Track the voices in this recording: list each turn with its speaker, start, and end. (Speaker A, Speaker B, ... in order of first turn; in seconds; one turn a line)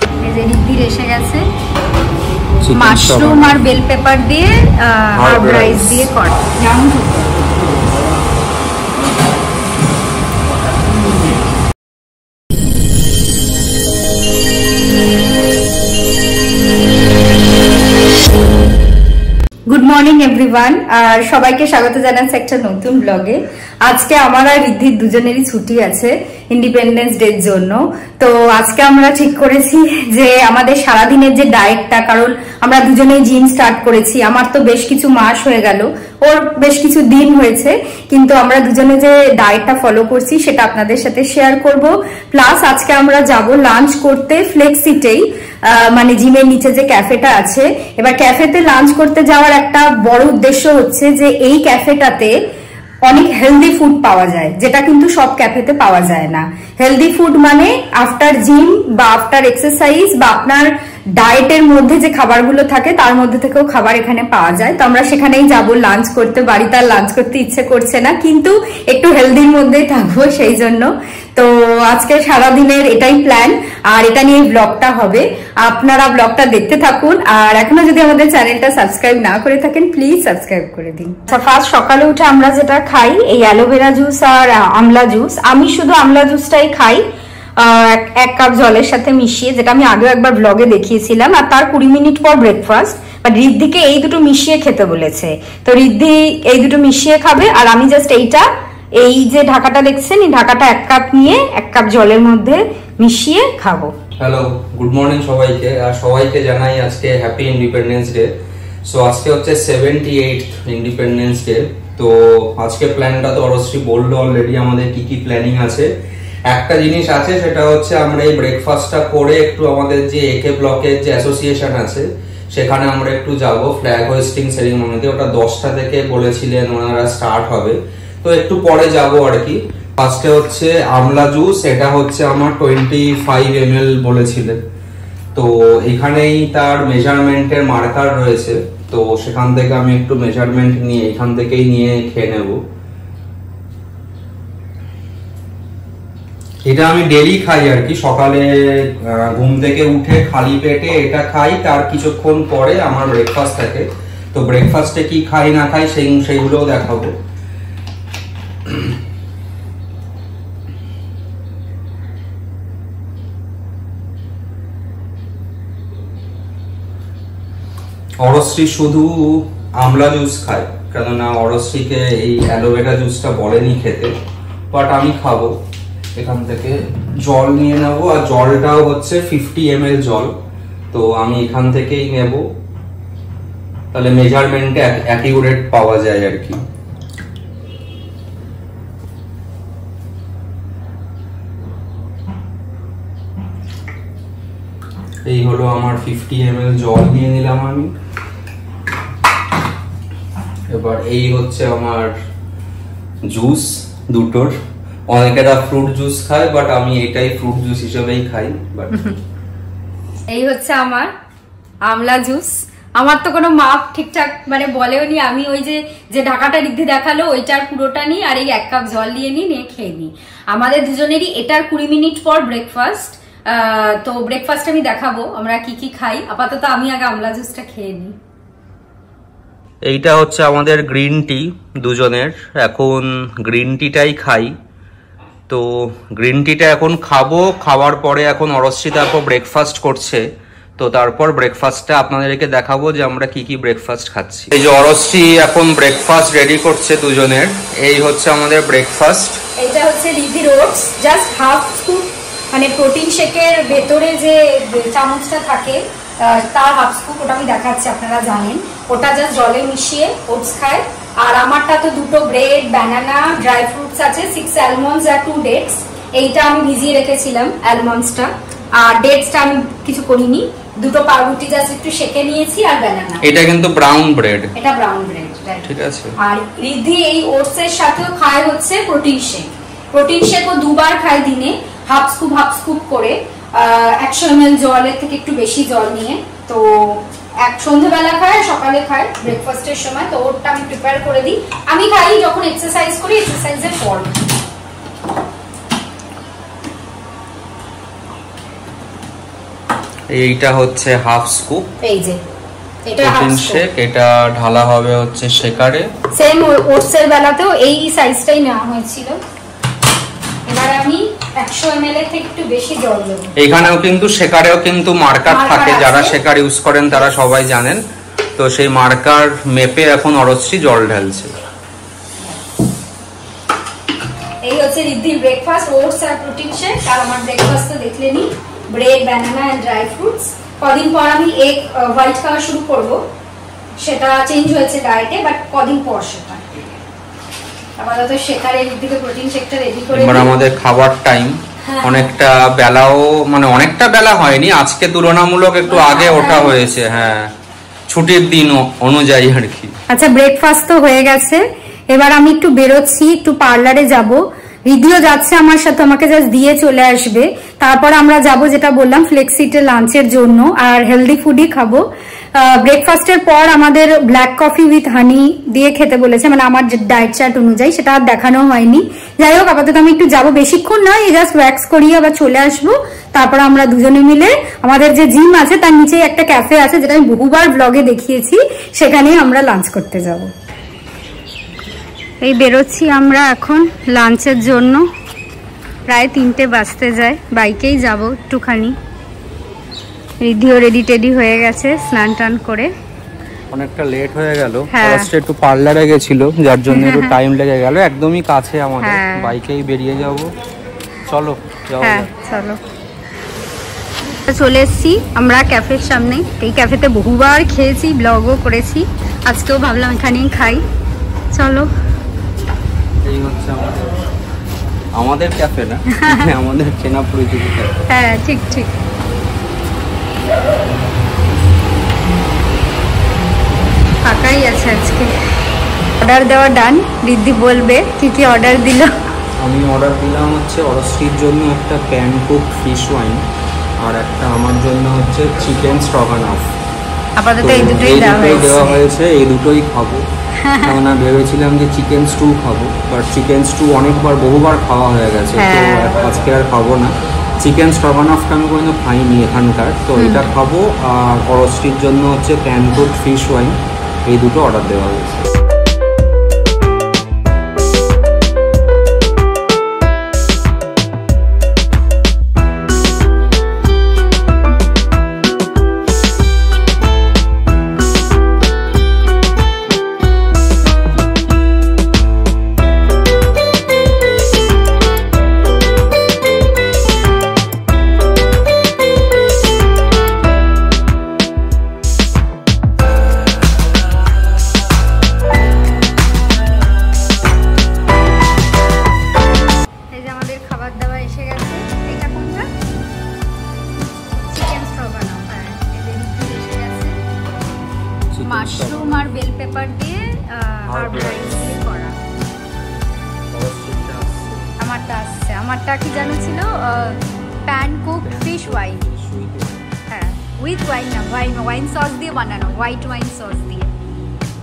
Speaker A: 0.2-1.4
Speaker B: 2.6-3.6
Speaker A: 2.8-7.3
Speaker B: 5.2-6.1
Speaker A: 19.7-52.3
Speaker A: 53.1-87.0
Speaker A: 87.6-103.9
Speaker B: 104.2-108.3
Speaker B: 108.9-115.9
Speaker B: 116.5-134.6
Speaker B: 135.3-142.6
Speaker B: 146.7-157.2
Speaker B: 158.7-159.0
Speaker B: 168.2-174.1
Speaker B: 174.7-175.6
Speaker B: 176.2-180.3
Speaker B: 180.9-182.4
Speaker B: 183.9-186.6
Speaker B: 195.3-197.9
Speaker B: 200.7-202.1
Speaker B: 203.3-204.5
Speaker B: 205.1-209.1
Speaker A: 210.3-211.1
Speaker A: 211.8-228.2
Speaker B: 229.8-234.5
Speaker B: 235.5-240.3
Speaker B: 240.8-249.4
Speaker A: 249.6-273.3
Speaker B: 273.2-274.5
Speaker A: 274.6-294.2
Speaker B: 275.6-276.1
Speaker B: 300.1-301.7
Speaker A: 301.8-302.2
Speaker A: 302.9-303.6
Speaker B: 303.0-305.9
Speaker A: 306.1-309.2
Speaker A: 310.5-313.3
Speaker B: 313.4-317.8
Speaker A: 315.3-316.2
Speaker B: 318.4-321.4
Speaker A: 324.4-333.0
Speaker A: 333.8-336.6
Speaker A: 337.8-340.4
Speaker B: 339.9-347.3
Speaker A: 341.6-342.2
Speaker A: 345.7-346.6
Speaker B: 347.9-349.7
Speaker A: 349.9-380.3
Speaker A: 382.2-384.9
Speaker A: 385.9-388.8
Speaker A: 390.2-392.7
Speaker B: 393.5-400.3
Speaker A: 394.7-395.1
Speaker A: 396.7-397.2
Speaker A: 398.8-399.3
Speaker B: 401.1-402.1
Speaker A: 401.8-402.6
Speaker A: 404.3-410.6
Speaker A: 411.3-411.7
Speaker B: 413.1-414.0
Speaker B: 415.0-417.7
Speaker A: 416.0-416.3
Speaker A: 417.9-418.7
Speaker A: 424.1-425.1
Speaker A: 426.0-428.9
Speaker B: 429.4-433.2
Speaker B: 433.8-436.5
Speaker A: 437.2-438.8
Speaker B: 437.4-440.0
Speaker A: 440.4-440.8
Speaker B: 440.6-455.3
Speaker A: 445.4-446.0
Speaker A: 450.0-450.3
Speaker A: 489.9-492.5
Speaker A: 494.1-497.0
Speaker B: 498.1-499.1
Speaker A: 498.2-502.0
Speaker B: 500.7-501.5
Speaker B: 503.3-504.5
Speaker A: 504.6-508.8
Speaker B: 508.0-509.7
Speaker A: 509.9-513.7